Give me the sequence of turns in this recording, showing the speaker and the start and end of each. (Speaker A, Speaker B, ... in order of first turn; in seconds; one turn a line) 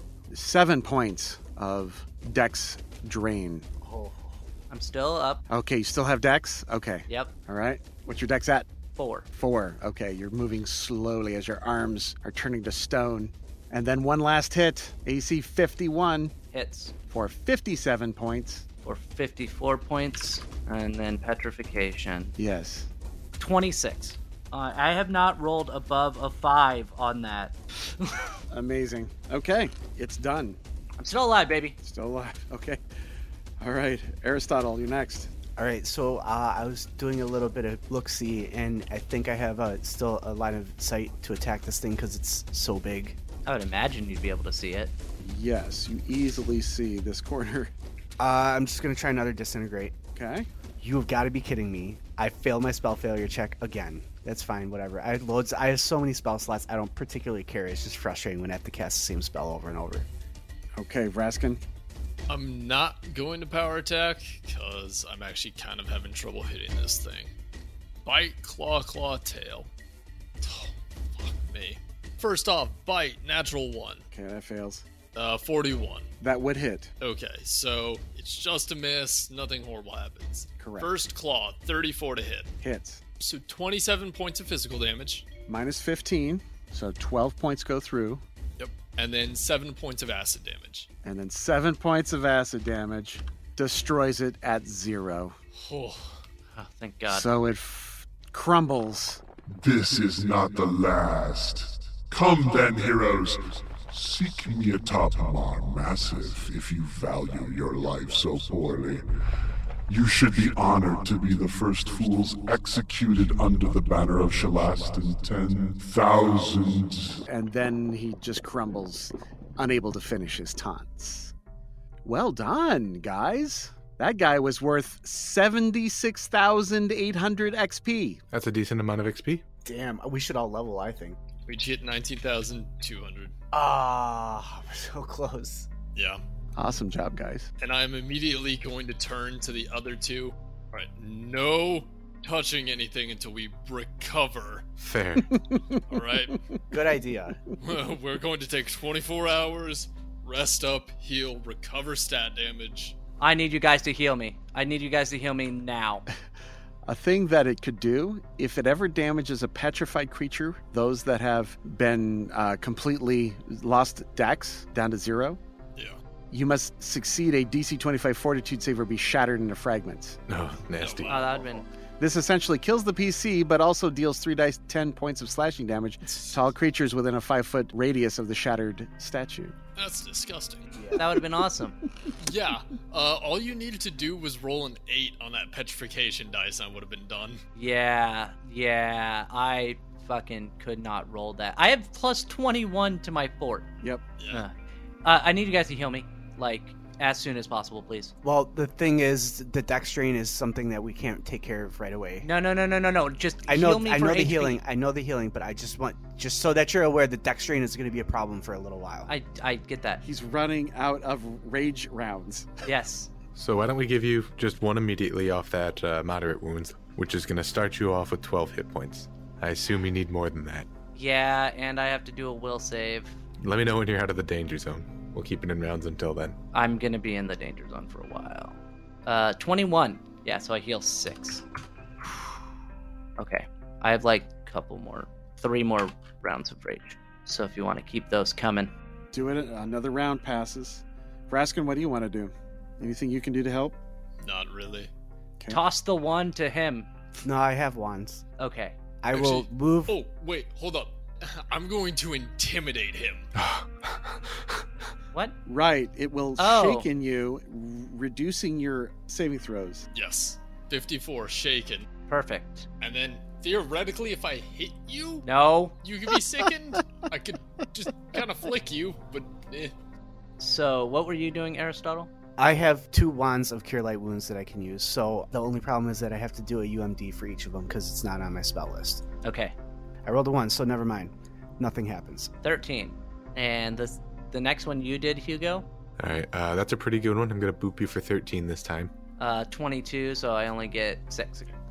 Speaker A: 0.3-3.7
Speaker B: 3.8-4.4
Speaker C: 4.7-5.4
Speaker A: 5.5-8.7
Speaker C: 8.9-9.3
Speaker A: 9.3-16.3
Speaker C: 16.5-16.9
Speaker A: 17.1-18.6
Speaker C: 18.8-22.3
Speaker A: 22.4-22.9
Speaker C: 23.4-28.3
Speaker A: 28.5-30.6
Speaker C: 31.0-31.8
Speaker A: 31.8-32.8
Speaker A: 33.6-35.3
Speaker B: 35.6-43.2
Speaker C: 43.4-44.9
Speaker A: 45.2-47.7
Speaker B: 48.2-50.0
Speaker A: 50.1-50.5
Speaker B: 50.8-60.1
Speaker A: 60.7-61.6
Speaker D: 62.3-67.3
Speaker D: 68.0-69.7
Speaker D: 70.4-74.0
Speaker A: 74.1-74.8
Speaker D: 75.1-76.1
Speaker A: 76.2-76.9
Speaker D: 77.0-82.5
Speaker A: 80.6-80.9
Speaker A: 82.6-83.0
Speaker D: 83.2-85.3
Speaker A: 85.5-88.2
Speaker D: 88.6-90.9
Speaker A: 91.0-95.3
Speaker D: 95.5-96.2
Speaker C: 96.5-97.3
Speaker A: 97.1-99.2
Speaker E: 99.5-109.1
Speaker E: 109.9-117.2
Speaker A: 117.3-121.3
Speaker A: 122.0-128.2
Speaker F: 128.3-129.4
Speaker B: 129.6-131.2
Speaker D: 131.5-133.3
Speaker B: 133.5-135.7
Speaker D: 135.9-136.2
Speaker A: 136.6-137.5
Speaker D: 137.6-144.6
Speaker F: 144.8-145.4
Speaker A: 145.3-145.8
Speaker D: 145.9-146.4
Speaker B: 146.7-147.4
Speaker D: 147.6-152.9
Speaker C: 153.2-156.1
Speaker A: 156.8-165.4
Speaker A: 166.3-170.2
Speaker F: 170.3-171.3
Speaker D: 170.8-171.4
Speaker C: 171.1-171.7
Speaker A: 172.0-179.5
Speaker D: 176.1-176.4
Speaker D: 179.8-180.9
Speaker C: 180.9-181.8
Speaker D: 182.2-187.4
Speaker C: 187.6-193.7
Speaker D: 194.2-194.4
Speaker C: 195.0-198.1
Speaker B: 198.2-202.3
Speaker C: 202.2-204.6
Speaker B: 203.5-209.1
Speaker C: 209.1-210.0
Speaker A: 210.0-212.6
Speaker C: 212.6-213.1
Speaker F: 213.3-220.7
Speaker C: 220.9-223.2
Speaker F: 223.4-226.4
Speaker C: 226.5-231.4
Speaker C: 233.2-238.7
Speaker A: 239.1-243.8
Speaker D: 244.2-244.9
Speaker C: 245.5-246.9
Speaker B: 247.2-248.2
Speaker C: 248.4-248.8
Speaker B: 249.0-250.0
Speaker D: 249.1-253.3
Speaker F: 253.3-254.6
Speaker A: 255.4-259.9
Speaker C: 256.4-256.9
Speaker D: 259.9-261.9
Speaker C: 262.1-262.7
Speaker D: 262.8-265.3
Speaker C: 265.2-265.7
Speaker D: 265.8-269.7
Speaker C: 270.4-272.1
Speaker B: 272.4-279.0
Speaker C: 279.2-279.5
Speaker B: 280.1-282.3
Speaker C: 282.4-285.6
Speaker F: 286.0-288.9
Speaker C: 289.2-291.6